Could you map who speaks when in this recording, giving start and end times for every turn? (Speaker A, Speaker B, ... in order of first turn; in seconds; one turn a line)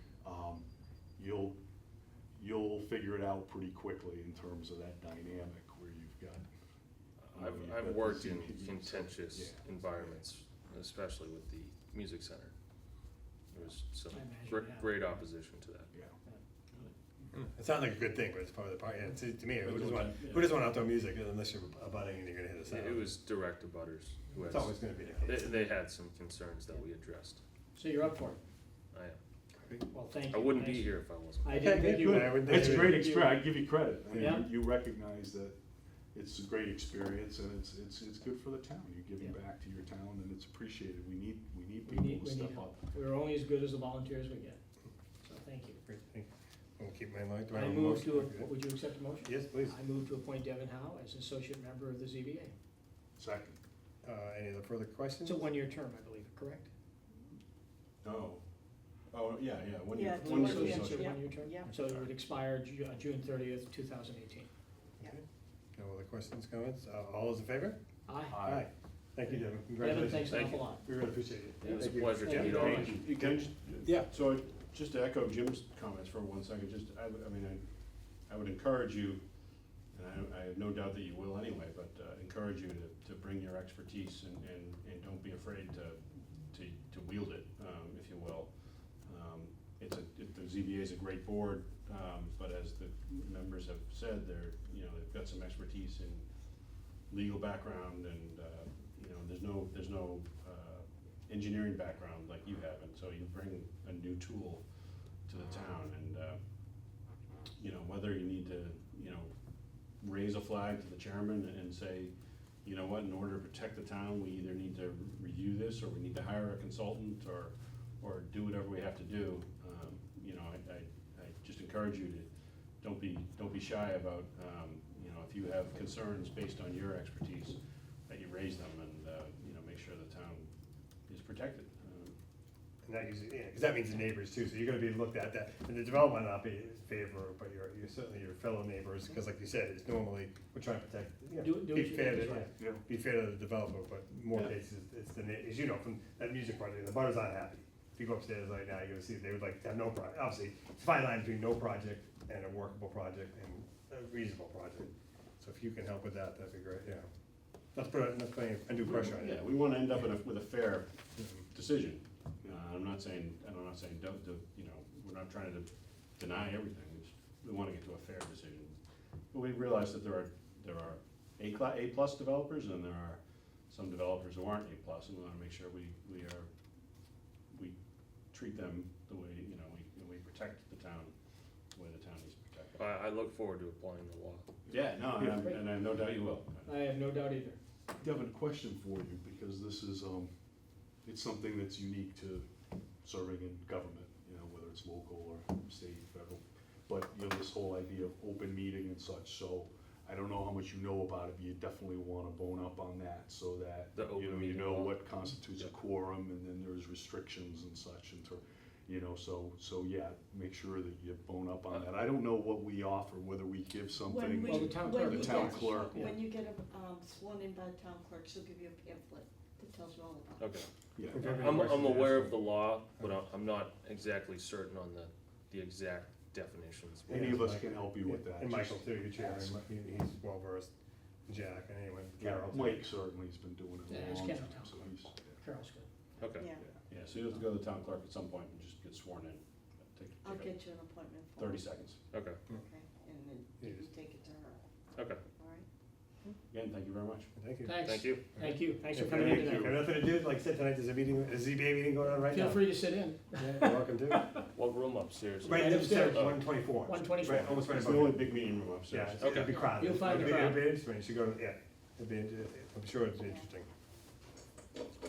Speaker A: 0.2-0.7
Speaker A: 1.2-1.6
Speaker A: 2.4-6.5
Speaker B: 7.2-12.5
Speaker A: 7.3-10.2
Speaker B: 13.5-15.9
Speaker C: 14.1-15.1
Speaker D: 17.3-23.1
Speaker E: 19.7-20.4
Speaker B: 22.7-27.4
Speaker D: 24.5-25.5
Speaker C: 27.8-28.4
Speaker D: 29.5-29.9
Speaker C: 29.9-33.5
Speaker B: 30.3-31.7
Speaker D: 31.5-33.2
Speaker A: 31.8-35.6
Speaker C: 34.1-34.5
Speaker A: 36.1-42.9
Speaker C: 41.9-44.6
Speaker C: 45.2-45.8
Speaker D: 45.9-48.5
Speaker C: 47.5-52.5
Speaker D: 49.2-49.8
Speaker A: 53.2-53.6
Speaker D: 54.0-55.5
Speaker C: 55.2-56.7
Speaker E: 58.0-58.4
Speaker E: 59.1-62.1
Speaker F: 59.9-61.7
Speaker C: 60.2-64.5
Speaker D: 65.8-74.1
Speaker C: 68.1-68.5
Speaker A: 68.3-68.7
Speaker C: 69.3-70.9
Speaker B: 70.2-70.7
Speaker B: 71.6-73.0
Speaker C: 72.2-73.0
Speaker E: 72.3-77.6
Speaker E: 78.3-79.2
Speaker E: 79.9-86.0
Speaker E: 86.5-96.3
Speaker E: 97.1-104.6
Speaker E: 105.3-106.4
Speaker E: 107.6-109.3
Speaker E: 110.0-112.1
Speaker E: 112.6-122.3
Speaker E: 122.8-130.5
Speaker E: 131.1-132.2
Speaker D: 132.8-157.1
Speaker C: 141.4-142.5
Speaker A: 142.6-142.8
Speaker D: 157.7-159.5
Speaker E: 158.8-168.8
Speaker D: 161.2-161.4
Speaker E: 169.3-176.5
Speaker E: 178.3-181.1
Speaker E: 181.7-182.8
Speaker B: 182.8-184.5
Speaker E: 184.7-186.8
Speaker A: 185.1-185.4
Speaker C: 185.4-185.7
Speaker C: 186.7-187.6
Speaker A: 188.0-190.3
Speaker A: 191.0-192.5
Speaker A: 193.0-216.1
Speaker B: 203.9-205.7
Speaker F: 214.1-220.5
Speaker C: 214.4-216.1
Speaker B: 220.4-227.3
Speaker A: 221.0-221.4
Speaker D: 221.1-222.4
Speaker D: 227.1-230.7
Speaker A: 227.1-229.6
Speaker D: 231.3-232.9
Speaker A: 232.2-235.4
Speaker C: 233.9-235.9
Speaker B: 236.2-236.5
Speaker F: 236.3-236.6
Speaker E: 236.9-240.6
Speaker F: 240.2-241.7
Speaker E: 241.4-242.0
Speaker B: 242.1-242.4
Speaker F: 242.5-244.6
Speaker D: 243.6-243.9
Speaker B: 245.0-245.2
Speaker F: 245.4-245.7
Speaker E: 246.5-247.3
Speaker D: 247.4-252.7
Speaker C: 247.7-249.8
Speaker B: 247.8-248.4
Speaker C: 252.2-254.5
Speaker D: 253.4-254.3
Speaker B: 254.5-256.4
Speaker D: 255.4-258.2
Speaker C: 255.5-257.6
Speaker E: 257.5-260.4
Speaker D: 258.9-263.7
Speaker B: 259.2-259.7
Speaker C: 259.6-260.7